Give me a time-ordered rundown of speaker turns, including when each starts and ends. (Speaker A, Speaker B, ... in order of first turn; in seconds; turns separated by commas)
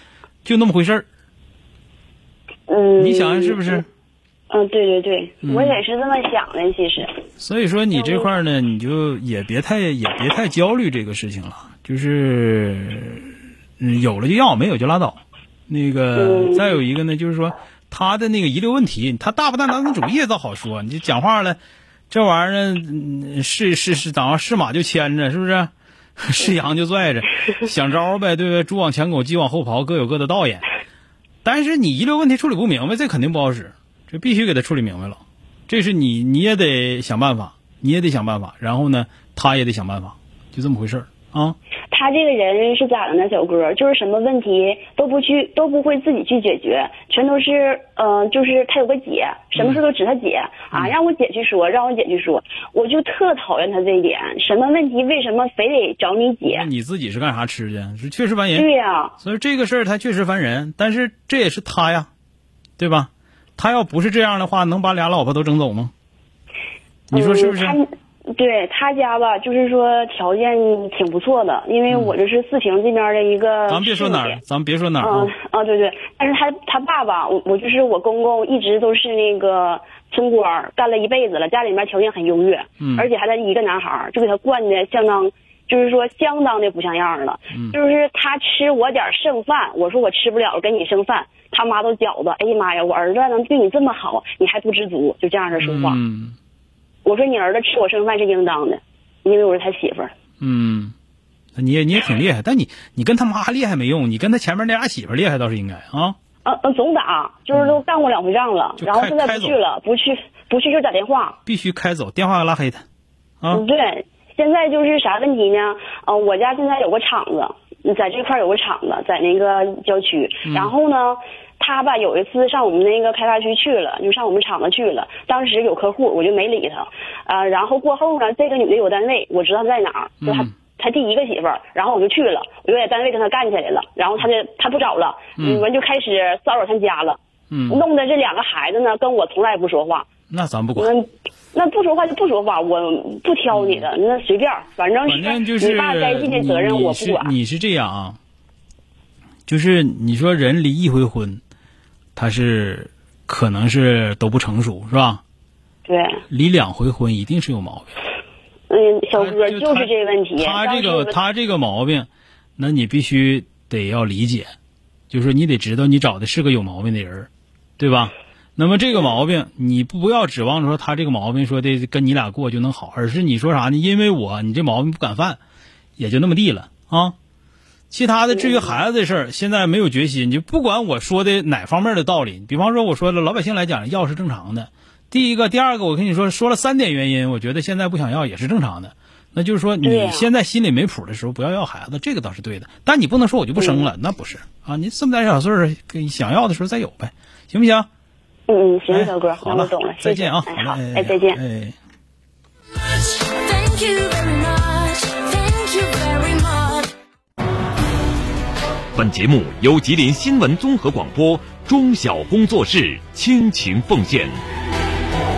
Speaker A: 0.4-1.0, Speaker B: 2.7-3.8, Speaker A: 3.0-3.9, Speaker B: 4.5-7.1, Speaker A: 5.4-5.8, Speaker A: 7.4-21.6, Speaker B: 7.9-8.3, Speaker B: 16.1-16.8, Speaker A: 22.1-30.6, Speaker A: 31.4-41.6, Speaker B: 41.9-56.7, Speaker A: 49.5-49.8, Speaker A: 56.4-58.7, Speaker B: 58.5-59.1, Speaker A: 59.2-62.1, Speaker A: 62.8-65.9, Speaker A: 67.1-67.8, Speaker B: 67.1-74.4, Speaker A: 71.9-72.1, Speaker A: 73.7-75.3, Speaker B: 75.0-96.0, Speaker A: 82.8-83.1, Speaker A: 95.5-96.3, Speaker B: 97.0-100.1, Speaker A: 100.4-100.9, Speaker A: 101.5-106.2, Speaker B: 106.4-111.4, Speaker A: 107.5-107.8, Speaker A: 108.8-109.6, Speaker A: 111.5-112.8, Speaker B: 113.5-140.1, Speaker A: 120.5-120.7, Speaker A: 130.2-130.5, Speaker A: 135.4-135.7, Speaker A: 137.5-137.8, Speaker A: 140.3-140.9, Speaker B: 140.8-147.3, Speaker A: 143.5-143.9, Speaker A: 145.0-148.2, Speaker A: 149.5-151.4, Speaker A: 152.2-155.2, Speaker B: 155.8-156.2, Speaker A: 156.3-157.9, Speaker B: 158.7-161.2, Speaker A: 159.2-164.5, Speaker A: 165.1-175.4, Speaker A: 176.0-177.2, Speaker A: 177.9-197.9, Speaker B: 178.3-178.8, Speaker B: 189.8-190.3, Speaker B: 193.6-193.9, Speaker B: 198.5-201.4, Speaker A: 198.9-201.7, Speaker C: 203.2-206.9, Speaker D: 208.9-214.3